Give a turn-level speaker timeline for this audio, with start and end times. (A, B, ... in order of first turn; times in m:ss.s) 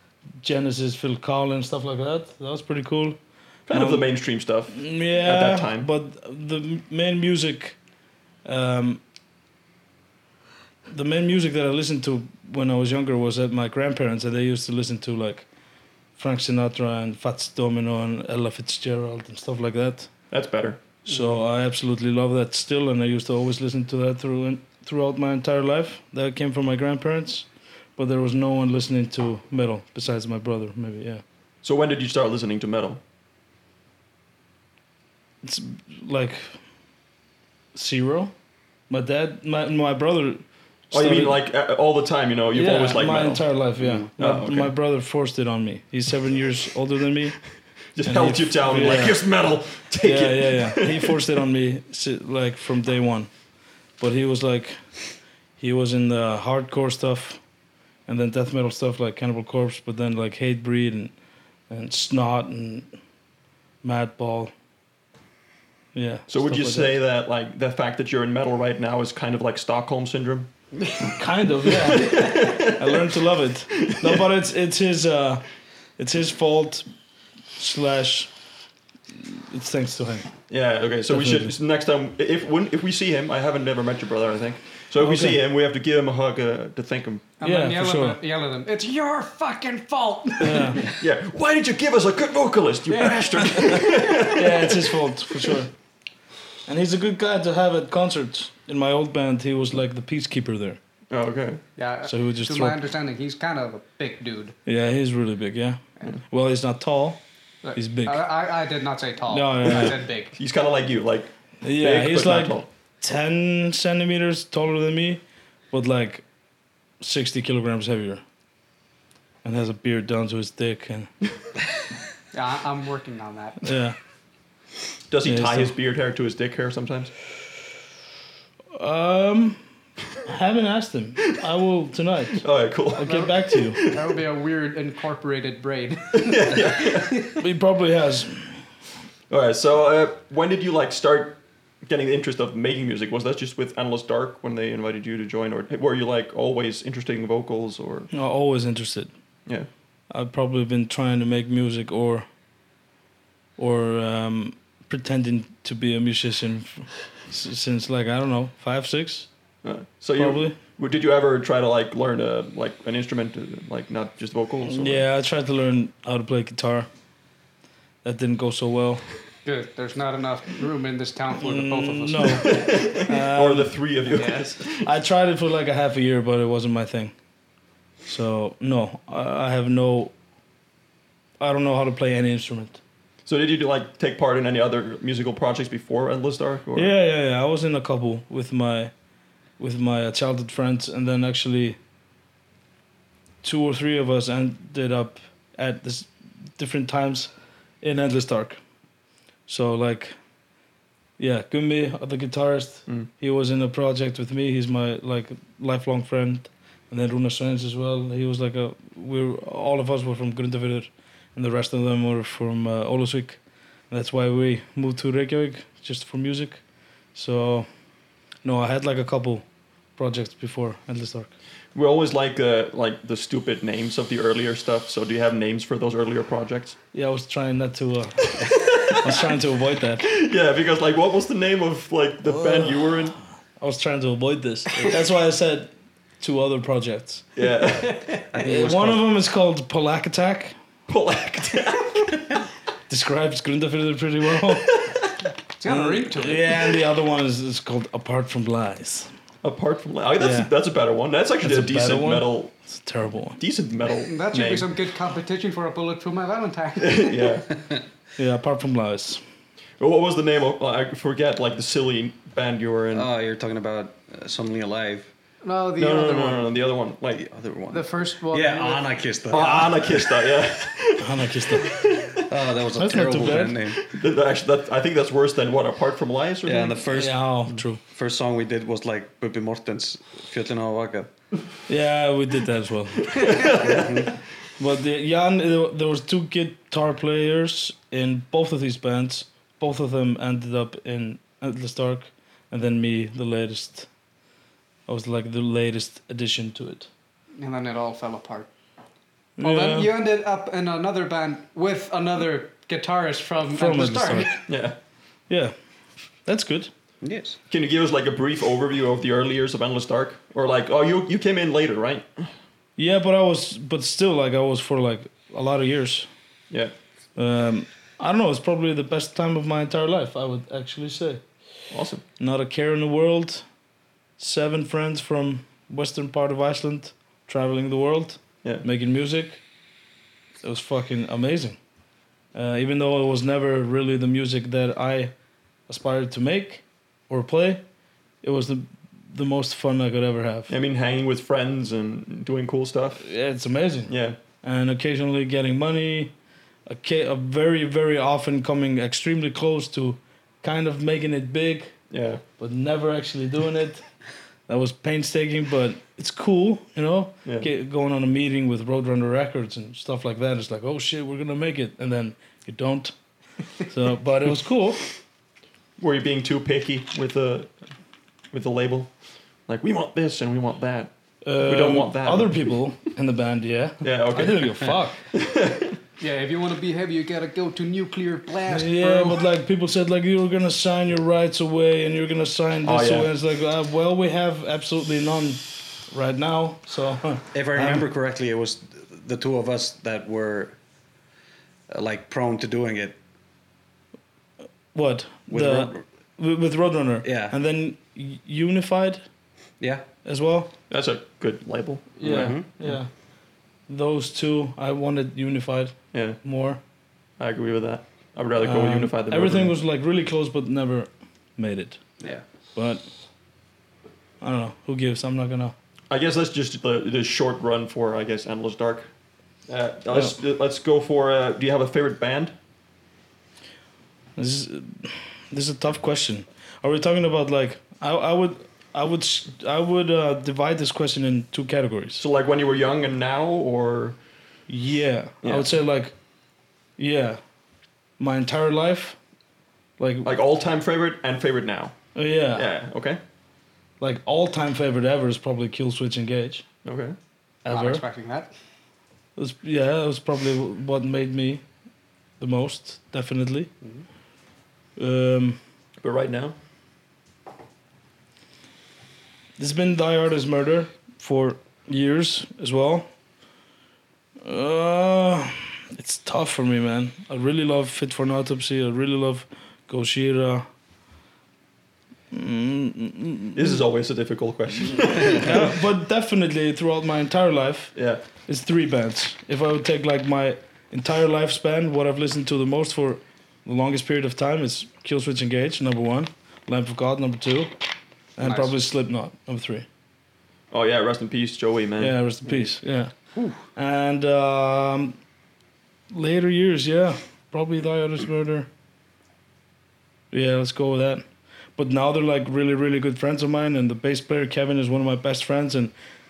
0:00.4-0:03.2 A
0:03.7-0:05.9 B
0:03.7-0:04.0 A
0:04.7-0:07.8 A
0:08.4-0:09.0 A
0:10.9-0:15.4 A
0:16.2-0:20.1 A
0:20.3-0:20.8 B
0:21.0-0:31.2 A
0:21.1-0:21.3 C
0:31.6-0:33.0 B
0:35.4-0:36.6 A
0:37.7-0:38.3 A
0:38.9-0:41.4 A
0:40.9-0:43.4 B
0:42.5-0:47.4 A
0:43.8-0:44.1 D
0:44.2-0:44.7 B
0:47.9-0:51.1 B
0:48.0-0:49.2 A
0:50.0-0:53.3 A
0:54.0-0:54.8 A
0:55.6-0:57.4 A
0:58.1-1:01.1 A
1:01.7-1:02.9 A
1:03.8-1:04.5 A
1:05.9-1:07.0 A
1:06.3-1:10.5 B
1:11.0-1:15.4 A
1:11.7-1:13.0 B
1:13.8-1:14.2 B
1:16.0-1:16.8 A
1:17.6-1:18.3 A
1:19.2-1:20.3 A
1:20.5-1:27.2 B
1:21.1-1:21.5 A
1:25.0-1:25.4 A
1:27.4-1:31.0 C
1:27.4-1:28.2 A
1:30.4-1:30.9 A
1:30.6-1:34.8 B
1:32.9-1:33.8 C
1:34.3-1:35.7 A
1:36.6-1:40.8 A
1:41.1-1:41.6 B
1:41.8-1:44.5 C
1:42.0-1:42.8 A
1:44.6-1:47.2 A
1:47.6-1:50.3 C
1:47.7-1:48.2 A
1:49.3-1:50.0 A
1:49.6-1:52.7 B
1:51.6-1:56.2 A
1:57.0-1:58.2 A
1:59.4-2:01.1 A
2:02.3-2:03.7 C
2:03.6-2:04.0 A
2:05.1-2:07.1 B
2:05.2-2:05.7 A
2:08.7-2:09.6 A
2:10.2-2:13.8 A
2:12.4-2:14.2 B
2:13.0-2:17.4 C
2:16.2-2:17.2 B
2:17.4-2:18.5 A
2:19.3-2:28.1 B
2:28.1-2:29.1 A
2:30.1-2:32.2 A
2:33.6-2:39.3 A
2:39.6-2:45.0 B
2:40.2-2:40.6 A
2:44.6-2:46.9 A
2:48.0-2:49.0 A
2:49.4-2:52.6 C
2:51.4-2:53.8 A
2:52.2-2:54.9 B
2:54.1-2:54.5 C
2:54.8-2:57.1 A
2:58.1-3:00.1 A
3:01.4-3:02.8 A
3:03.2-3:06.9 B
3:06.7-3:08.9 A
3:09.6-3:11.8 A
3:13.4-3:17.3 A
3:17.8-3:18.6 A
3:19.5-3:20.2 A
3:21.2-3:33.4 A
3:33.9-3:36.6 A
3:37.1-3:37.7 A
3:38.4-3:39.4 A
3:40.0-3:41.3 A
3:41.7-3:46.8 B
3:46.9-3:50.1 A
3:48.4-3:49.4 B
3:50.0-3:53.2 B
3:52.2-3:53.0 A
3:53.6-3:57.3 A
3:57.4-3:58.2 B
3:58.3-3:59.0 D
3:58.4-4:00.6 A
4:00.9-4:02.4 B
4:02.9-4:04.8 A
4:04.7-4:05.0 B
4:05.6-4:06.8 C
4:05.6-4:09.1 A
4:09.4-4:12.5 B
4:10.2-4:10.5 A
4:11.4-4:13.4 A
4:13.4-4:14.7 B
4:14.0-4:17.4 C
4:16.8-4:17.5 B
4:18.2-4:19.2 A
4:19.8-4:23.1 B
4:22.9-4:25.1 D
4:25.4-4:26.5 C
4:25.8-4:27.3 B
4:27.2-4:30.2 D
4:27.7-4:29.4 C
4:29.3-4:32.2 B
4:31.0-4:31.7 A
4:32.3-4:33.8 D
4:32.7-4:33.6 A
4:33.9-4:36.8 B
4:36.4-4:37.3 D
4:36.9-4:37.8 A
4:37.9-4:41.1 D
4:41.7-4:43.2 A
4:43.1-4:44.0 B
4:43.5-4:44.1 D
4:44.6-4:53.9 A
4:54.9-4:56.9 A
4:57.4-4:58.5 C
4:59.4-4:59.9 A
4:59.4-5:04.4 C
5:03.5-5:04.4 A
5:04.5-5:04.8 B
5:05.3-5:05.5 A
5:06.2-5:06.7 A
5:07.0-5:07.4 D
5:07.5-5:12.3 B
5:12.8-5:16.1 A
5:17.2-5:21.2 A
5:21.7-5:22.0 B
5:22.2-5:23.4 A
5:24.2-5:29.4 A
5:30.4-5:31.6 A
5:32.3-5:35.1 A
5:35.7-5:37.6 A
5:38.2-5:40.5 A
5:40.5-5:43.0 B
5:43.0-5:46.1 A
5:43.9-5:44.2 B
5:46.7-5:51.8 A
5:51.9-5:52.2 B
5:52.4-5:53.8 A
5:54.5-6:02.9 A
6:03.6-6:04.8 A
6:05.8-6:07.5 B
6:08.3-6:08.9 B
6:09.5-6:10.9 B
6:11.2-6:15.0 A
6:11.4-6:12.5 B
6:13.8-6:15.8 B
6:16.0-6:19.2 C
6:18.4-6:27.9 A
6:22.6-6:23.1 B
6:27.3-6:30.6 D
6:31.7-6:33.0 D
6:34.7-6:39.0 A
6:35.3-6:35.8 D
6:37.0-6:37.3 D
6:40.0-6:40.5 A
6:40.7-6:42.7 B
6:42.0-6:42.9 A
6:42.0-6:42.5 D
6:43.7-6:46.6 A
6:45.9-6:46.2 B
6:47.2-6:49.5 B
6:48.4-6:51.8 A
6:52.5-6:52.8 A
6:54.2-6:55.5 A
6:55.9-6:58.9 B
6:59.5-7:02.3 B
7:04.2-7:12.0 A
7:12.0-7:14.0 B
7:14.5-7:15.9 A
7:15.2-7:15.5 B
7:16.8-7:17.2 A
7:18.0-7:19.0 A
7:19.8-7:20.1 A
7:20.0-7:21.7 B
7:21.9-7:22.5 A
7:22.3-7:23.0 B
7:23.8-7:26.4 A
7:26.6-7:27.0 B
7:27.4-7:27.8 A
7:27.5-7:28.3 C
7:29.2-7:31.4 A
7:32.2-7:33.5 A
7:34.8-7:35.4 A
7:35.8-7:36.4 B
7:39.4-7:42.9 A
7:44.2-7:50.5 A
7:52.1-7:53.6 A
7:53.3-7:55.5 B
7:55.1-8:07.5 A
7:57.7-7:58.0 B
8:08.2-8:09.6 A
8:08.2-8:08.5 C
8:10.5-8:12.0 B
8:11.8-8:12.9 A
8:13.5-8:15.0 A
8:15.9-8:18.5 A
8:20.1-8:21.0 A
8:21.6-8:25.7 A